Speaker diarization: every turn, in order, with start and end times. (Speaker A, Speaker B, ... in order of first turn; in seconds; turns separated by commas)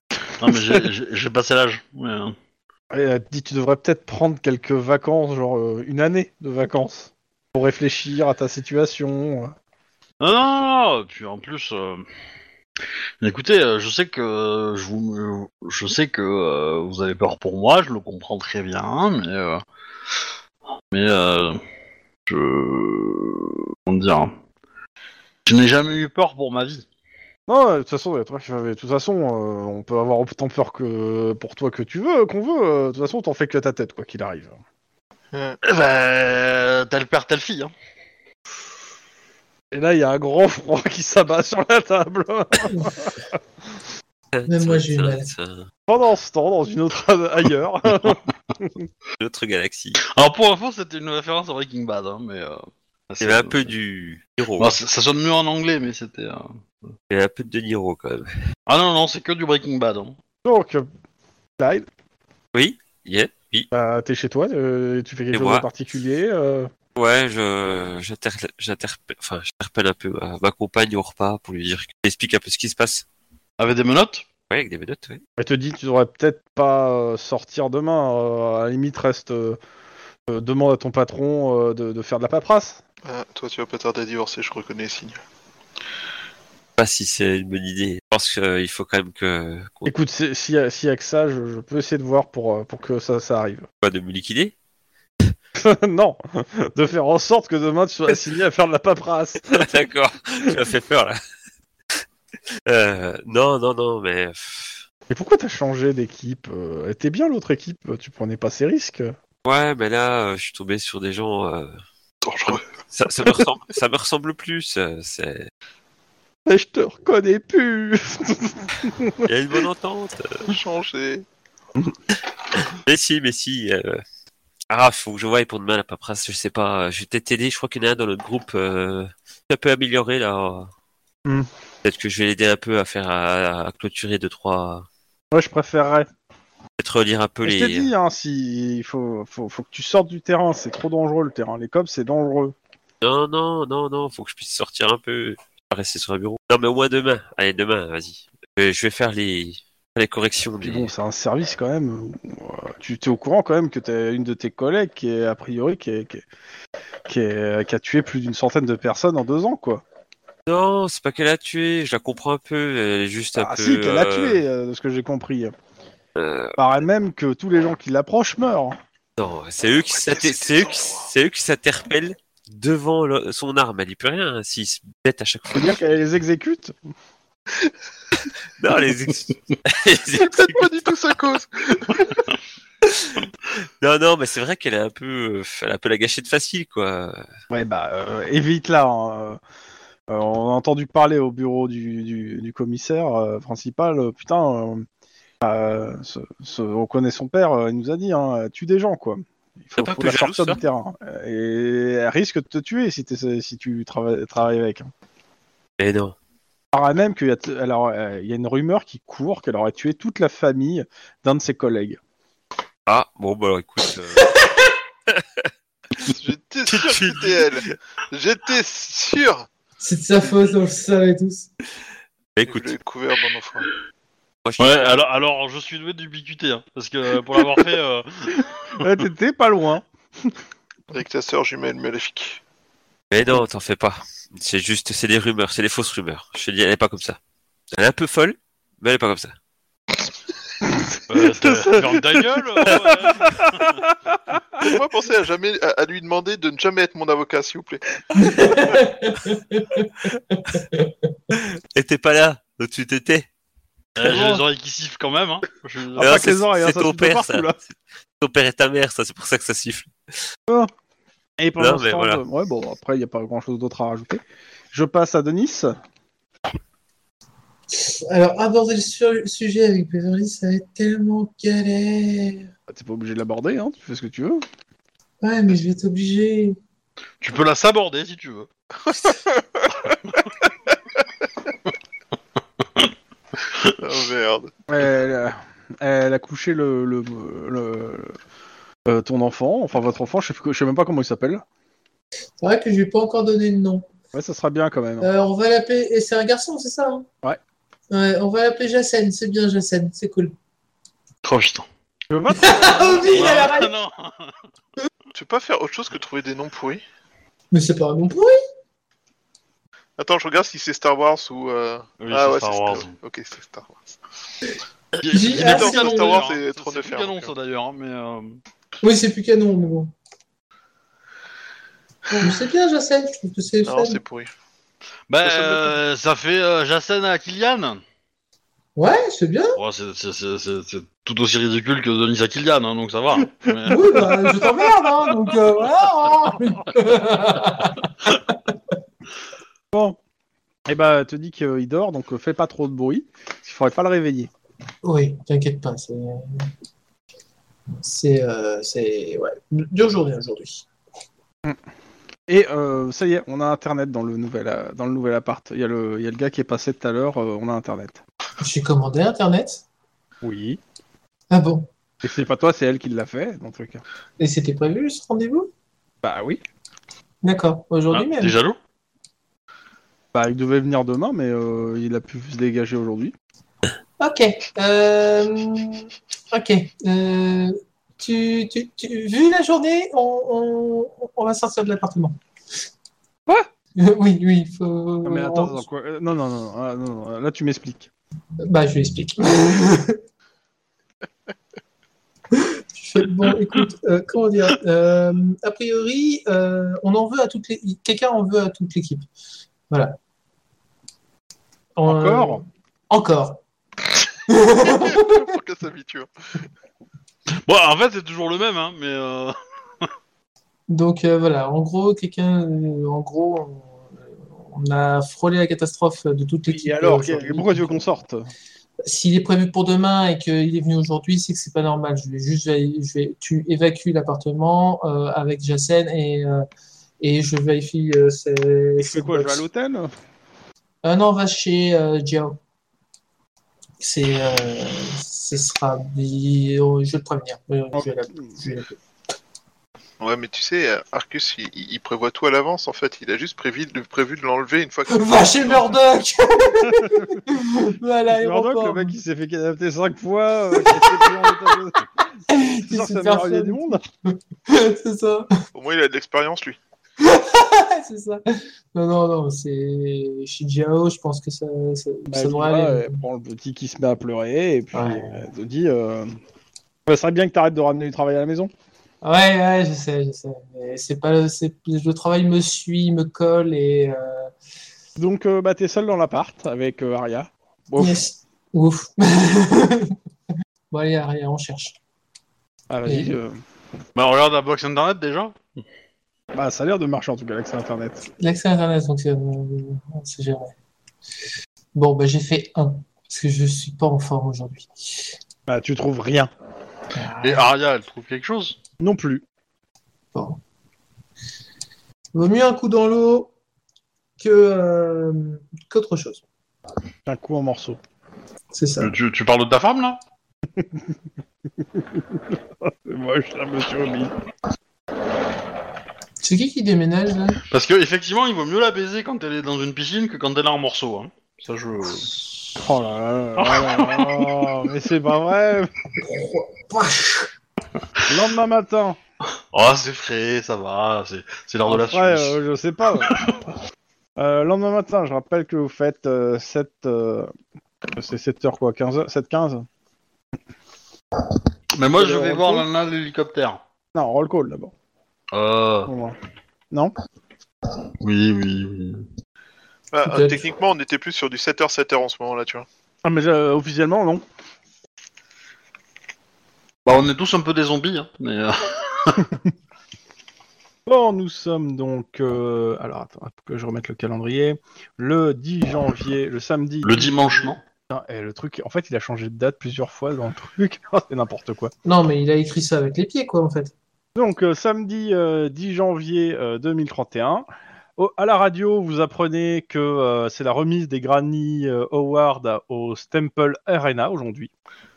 Speaker A: 0.4-2.4, Speaker B: 2.9-9.6, Speaker A: 10.2-12.1, Speaker A: 13.2-19.6, Speaker A: 20.9-21.6, Speaker A: 22.3-24.3, Speaker A: 25.4-26.9, Speaker B: 27.5-34.6, Speaker C: 35.3-35.6, Speaker A: 35.6-37.7, Speaker B: 39.7-43.1, Speaker D: 44.3-45.7, Speaker E: 44.5-45.3, Speaker B: 45.9-48.9, Speaker D: 49.2-50.0, Speaker A: 50.0-53.7, Speaker D: 53.2-54.8, Speaker A: 54.6-56.9, Speaker D: 57.1-58.3, Speaker A: 58.7-60.2, Speaker B: 60.5-60.9, Speaker B: 61.6-61.9, Speaker D: 62.5-63.7, Speaker B: 63.7-66.7, Speaker D: 65.3-65.7, Speaker D: 67.0-73.0, Speaker A: 73.6-74.3, Speaker D: 74.5-75.2, Speaker B: 75.4-79.6, Speaker B: 80.3-82.8, Speaker C: 83.0-85.2, Speaker D: 86.8-89.9, Speaker B: 89.9-93.7, Speaker D: 93.8-94.5, Speaker B: 95.6-99.7, Speaker D: 99.5-101.2, Speaker D: 102.7-104.8, Speaker B: 105.1-109.1, Speaker D: 109.5-111.8, Speaker C: 112.2-112.6, Speaker D: 112.5-115.5, Speaker B: 116.5-119.3, Speaker D: 119.3-120.5, Speaker C: 120.5-121.3, Speaker D: 122.5-124.0, Speaker D: 124.7-130.7, Speaker D: 131.8-134.9, Speaker B: 135.3-136.1, Speaker D: 136.8-137.9, Speaker B: 137.4-142.5, Speaker D: 143.0-150.9, Speaker B: 150.6-156.2, Speaker B: 157.1-159.8, Speaker D: 160.5-164.4, Speaker B: 163.3-165.6, Speaker D: 166.2-166.6, Speaker B: 166.6-168.8, Speaker D: 169.2-175.8, Speaker C: 170.0-171.1, Speaker B: 175.5-176.7, Speaker D: 178.6-180.7, Speaker C: 180.2-182.1, Speaker D: 182.9-183.1, Speaker D: 183.8-187.2, Speaker B: 187.5-189.4, Speaker B: 190.1-194.8, Speaker B: 195.4-204.9, Speaker D: 199.8-200.6, Speaker D: 205.8-206.2, Speaker B: 206.7-212.0, Speaker D: 212.9-214.4, Speaker D: 215.1-215.5, Speaker C: 216.1-219.5, Speaker D: 216.7-217.7, Speaker E: 219.8-221.5, Speaker D: 222.3-222.8, Speaker C: 222.5-223.7, Speaker D: 224.4-225.0, Speaker A: 224.6-228.8, Speaker B: 228.8-229.8, Speaker C: 230.9-232.4, Speaker D: 233.1-237.2, Speaker D: 237.8-239.3, Speaker B: 240.7-244.4, Speaker A: 241.1-243.7, Speaker C: 244.6-248.0, Speaker E: 248.2-250.9, Speaker D: 251.8-253.3, Speaker A: 254.0-256.4, Speaker B: 254.0-254.4, Speaker B: 256.0-257.6, Speaker D: 256.0-257.6, Speaker D: 258.2-259.9, Speaker B: 261.4-264.2, Speaker D: 261.6-262.2, Speaker B: 264.7-265.8, Speaker E: 267.7-272.5, Speaker B: 272.7-274.4, Speaker E: 275.2-276.6, Speaker A: 277.2-278.5, Speaker A: 279.9-280.1, Speaker C: 283.8-284.5, Speaker B: 284.7-288.1, Speaker B: 288.9-291.4, Speaker E: 292.4-293.9, Speaker B: 294.1-295.1, Speaker E: 295.0-297.1, Speaker E: 297.9-300.4, Speaker A: 301.2-301.7, Speaker B: 302.1-303.0, Speaker E: 302.3-303.7, Speaker A: 303.1-304.4, Speaker C: 305.1-306.8, Speaker E: 307.5-308.4, Speaker C: 310.0-313.9, Speaker A: 312.0-312.9, Speaker A: 315.0-318.4, Speaker E: 315.1-316.2, Speaker C: 315.2-317.3, Speaker E: 318.8-319.9, Speaker E: 322.2-324.0, Speaker C: 323.6-324.3, Speaker A: 325.1-327.8, Speaker E: 328.8-329.6, Speaker A: 329.6-334.1, Speaker E: 333.7-338.3, Speaker B: 333.7-334.7, Speaker B: 339.7-340.0, Speaker B: 340.7-344.3, Speaker E: 344.8-346.5, Speaker E: 347.8-350.7, Speaker B: 352.3-358.0, Speaker E: 358.4-359.6, Speaker B: 360.2-360.6, Speaker E: 361.3-361.7, Speaker B: 362.0-363.8, Speaker E: 364.2-365.5, Speaker B: 366.0-366.4, Speaker E: 367.2-368.4, Speaker A: 367.9-368.6, Speaker B: 370.1-373.1, Speaker E: 374.0-382.2, Speaker E: 383.8-385.6, Speaker B: 385.0-387.9, Speaker E: 388.4-390.0, Speaker E: 392.3-399.1, Speaker E: 399.7-400.0, Speaker E: 401.8-403.4, Speaker B: 401.9-402.4, Speaker E: 404.3-405.4, Speaker C: 404.6-406.1, Speaker A: 407.4-409.9, Speaker E: 410.7-413.8, Speaker E: 414.4-417.8, Speaker B: 416.5-418.3, Speaker E: 418.9-426.5, Speaker E: 427.0-429.4, Speaker B: 428.8-429.9, Speaker E: 430.8-432.4, Speaker E: 433.8-438.8, Speaker B: 437.7-438.4, Speaker C: 440.0-445.8, Speaker E: 444.9-448.9, Speaker B: 446.5-447.2, Speaker B: 448.1-451.8, Speaker E: 450.6-451.5, Speaker E: 452.3-455.3, Speaker B: 452.6-453.8, Speaker C: 455.5-456.6, Speaker E: 457.0-463.0, Speaker B: 462.1-466.2, Speaker E: 464.7-465.1, Speaker B: 466.9-468.5, Speaker E: 469.0-474.3, Speaker B: 475.0-478.0, Speaker E: 477.8-480.0, Speaker E: 480.7-481.8, Speaker B: 482.7-483.4, Speaker E: 482.9-483.2, Speaker A: 484.0-485.4, Speaker B: 486.3-488.1, Speaker E: 488.2-490.5, Speaker E: 491.8-495.1, Speaker B: 495.5-496.3, Speaker E: 496.9-497.5, Speaker A: 497.2-498.6, Speaker B: 498.8-499.2, Speaker E: 500.1-500.4, Speaker E: 502.1-503.3, Speaker E: 504.2-506.2, Speaker B: 507.1-507.8, Speaker E: 508.5-508.9, Speaker A: 508.8-510.0, Speaker B: 510.6-510.9, Speaker B: 511.8-514.1, Speaker E: 516.2-517.4, Speaker A: 517.5-522.1, Speaker B: 522.6-525.7, Speaker A: 523.4-524.5, Speaker E: 526.0-527.3, Speaker B: 528.1-529.0, Speaker A: 529.5-532.4, Speaker B: 531.7-533.3, Speaker A: 533.1-533.4, Speaker B: 534.2-537.3, Speaker B: 537.9-539.7, Speaker A: 541.8-543.6, Speaker B: 542.0-542.7, Speaker B: 544.0-544.7, Speaker A: 545.3-545.9, Speaker B: 545.9-546.2, Speaker A: 548.0-549.1, Speaker C: 549.9-552.7, Speaker E: 550.1-550.5, Speaker B: 553.0-554.2, Speaker A: 556.9-559.3, Speaker B: 560.9-567.2, Speaker A: 566.8-567.6, Speaker B: 567.9-571.7, Speaker E: 571.9-573.7, Speaker B: 574.2-577.5, Speaker B: 578.0-584.5